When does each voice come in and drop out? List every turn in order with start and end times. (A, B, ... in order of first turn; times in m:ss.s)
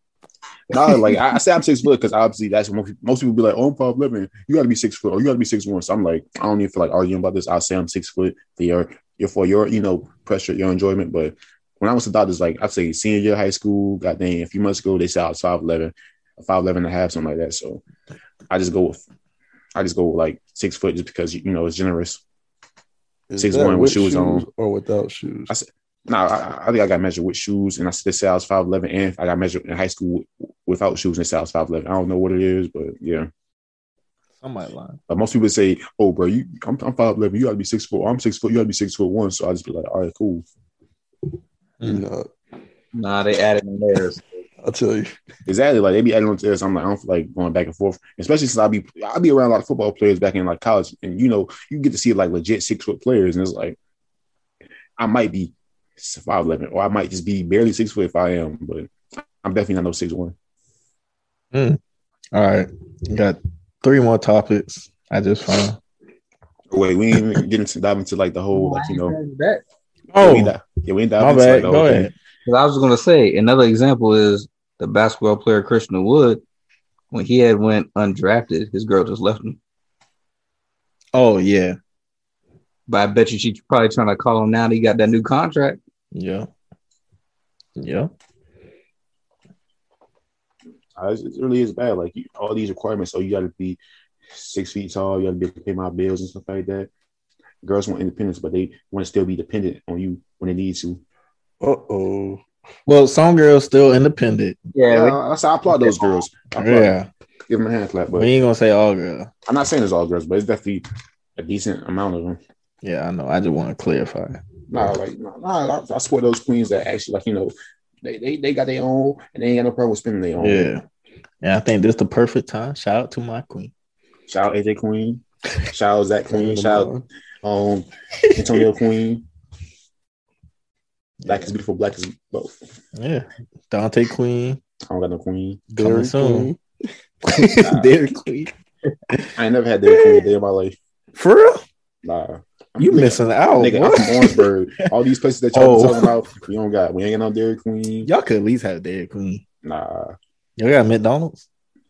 0:00.7-0:17.8 A
0:18.5-0:19.0 A
0:19.8-0:22.2 A
0:23.3-0:25.5 B
0:23.4-0:24.5 A
0:25.5-0:33.3 A
0:34.4-0:35.0 C
0:35.1-0:40.4 A
0:41.8-0:42.3 B
0:42.9-0:44.4 D
0:44.6-0:45.1 B
0:45.5-0:53.8 A
0:55.0-0:58.9 A
0:59.4-1:00.4 A
1:01.5-1:01.8 C
1:02.3-1:05.8 C
1:06.7-1:09.2 A
1:08.5-1:09.6 D
1:10.1-1:10.6 C
1:10.2-1:12.1 A
1:11.2-1:12.1 C
1:12.5-1:16.4 D
1:17.1-1:19.6 D
1:21.1-1:21.8 C
1:22.9-1:25.8 D
1:26.1-1:26.5 C
1:27.8-1:28.1 C
1:31.0-1:33.8 A
1:34.3-1:36.9 A
1:37.6-1:41.0 A
1:41.6-1:42.4 B
1:42.9-1:44.6 C
1:44.7-1:45.2 D
1:44.9-1:47.0 A
1:46.6-1:47.1 C
1:47.5-1:48.3 A
1:48.1-1:49.3 C
1:49.5-1:50.8 A
1:51.4-1:52.4 A
1:52.8-1:54.9 C
1:54.7-2:00.7 A
2:00.4-2:00.8 C
2:01.4-2:03.7 C
2:04.3-2:06.9 A
2:06.3-2:07.0 B
2:07.4-2:09.2 A
2:08.2-2:08.6 C
2:11.2-2:11.5 C
2:11.3-2:12.5 A
2:13.0-2:14.6 C
2:14.9-2:15.6 A
2:15.7-2:16.6 B
2:15.8-2:16.5 C
2:17.2-2:18.5 C
2:17.6-2:18.0 A
2:19.1-2:19.4 C
2:19.4-2:20.8 A
2:19.9-2:20.3 C
2:21.2-2:21.6 C
2:22.0-2:28.1 A
2:22.8-2:24.5 C
2:25.5-2:26.1 C
2:28.0-2:29.4 C
2:29.6-2:30.2 A
2:30.6-2:31.5 C